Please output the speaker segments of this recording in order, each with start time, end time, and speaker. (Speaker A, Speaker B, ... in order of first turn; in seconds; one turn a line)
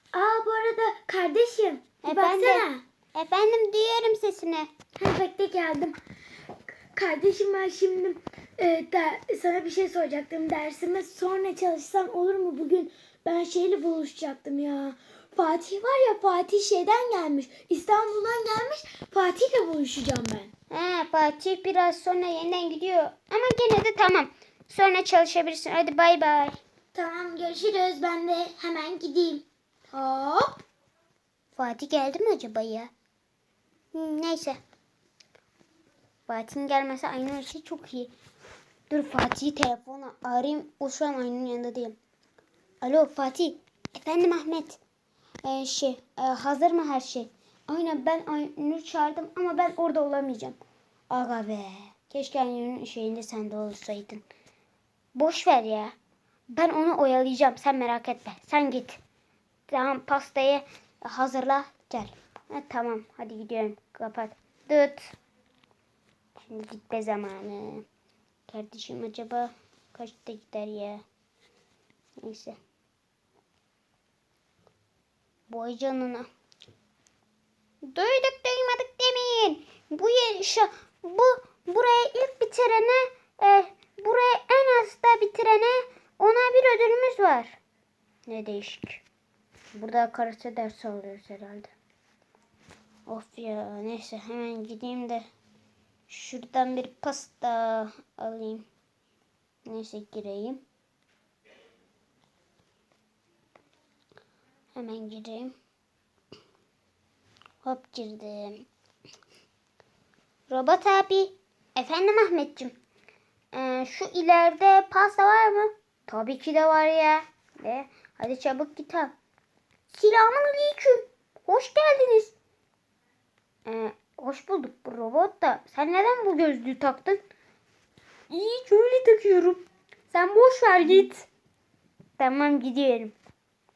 Speaker A: 0.1-2.8
Speaker B: 2.0-4.7
Speaker A: 5.0-5.9
Speaker A: 6.9-20.5
Speaker B: 20.7-26.6
Speaker A: 26.9-30.5
Speaker B: 31.5-32.9
Speaker B: 33.9-34.6
Speaker B: 36.3-38.1
Speaker B: 38.9-42.0
Speaker B: 42.8-44.8
Speaker B: 45.4-50.6
Speaker B: 51.1-54.2
Speaker B: 55.1-55.9
Speaker B: 56.5-59.0
Speaker B: 59.7-65.1
Speaker B: 66.4-67.8
Speaker B: 68.5-71.0
Speaker B: 72.2-72.5
Speaker B: 75.5-76.3
Speaker B: 77.8-87.6
Speaker B: 88.3-89.0
Speaker B: 89.7-91.7
Speaker B: 93.1-95.2
Speaker B: 96.1-98.7
Speaker B: 99.7-100.6
Speaker B: 104.7-105.5
Speaker B: 107.6-108.7
Speaker B: 110.5-112.7
Speaker B: 113.5-119.1
Speaker B: 119.9-122.3
Speaker B: 123.7-127.2
Speaker B: 128.3-131.2
Speaker B: 132.2-133.1